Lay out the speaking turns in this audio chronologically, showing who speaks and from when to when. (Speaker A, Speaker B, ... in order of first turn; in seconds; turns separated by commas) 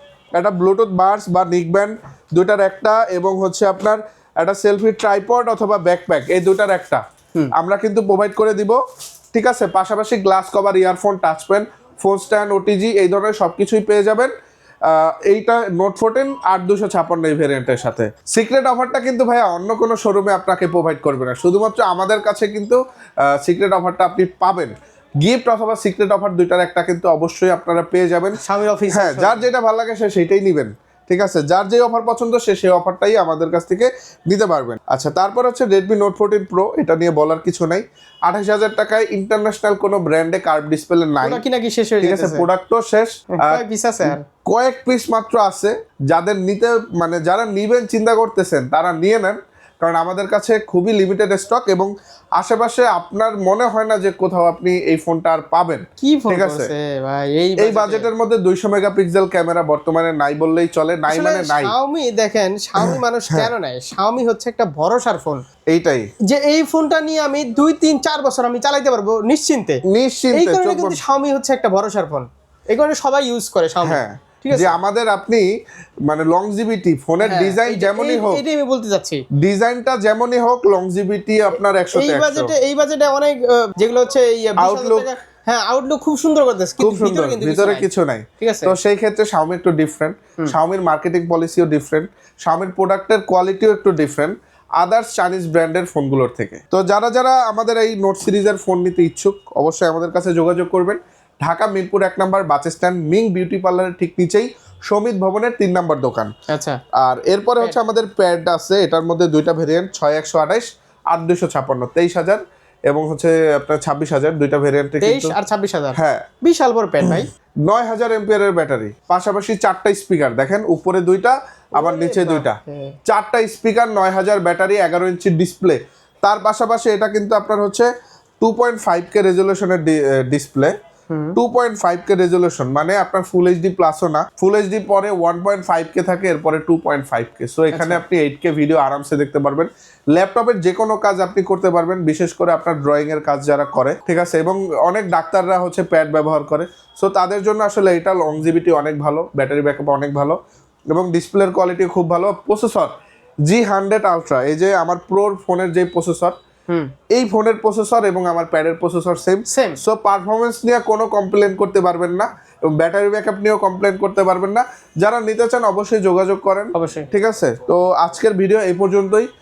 Speaker A: 0.3-7.0, Speaker A: 7.5-8.8, Speaker A: 9.3-14.3, Speaker A: 14.8-41.4, Speaker B: 28.4-29.4, Speaker B: 41.2-42.5, Speaker A: 42.0-56.7, Speaker B: 43.4-44.2, Speaker B: 56.0-58.1, Speaker A: 57.6-61.7, Speaker B: 61.1-65.4, Speaker A: 62.8-63.5, Speaker A: 65.7-66.1, Speaker B: 66.3-69.8, Speaker A: 69.8-71.0, Speaker B: 70.3-74.8, Speaker A: 73.8-75.5, Speaker A: 76.0-78.4, Speaker B: 77.2-79.2, Speaker A: 79.3-82.5, Speaker B: 81.9-87.9, Speaker A: 84.6-85.1, Speaker A: 86.8-106.3, Speaker B: 88.4-88.8, Speaker B: 106.5-106.8, Speaker A: 107.0-115.3, Speaker B: 115.0-117.3, Speaker A: 115.9-116.2, Speaker A: 117.0-127.9, Speaker B: 122.0-122.9, Speaker A: 128.4-130.7, Speaker B: 131.1-131.3, Speaker A: 131.3-150.4, Speaker B: 137.7-138.0, Speaker A: 150.9-152.9, Speaker A: 153.5-156.3, Speaker A: 157.1-169.3, Speaker B: 159.5-159.8, Speaker B: 166.7-167.1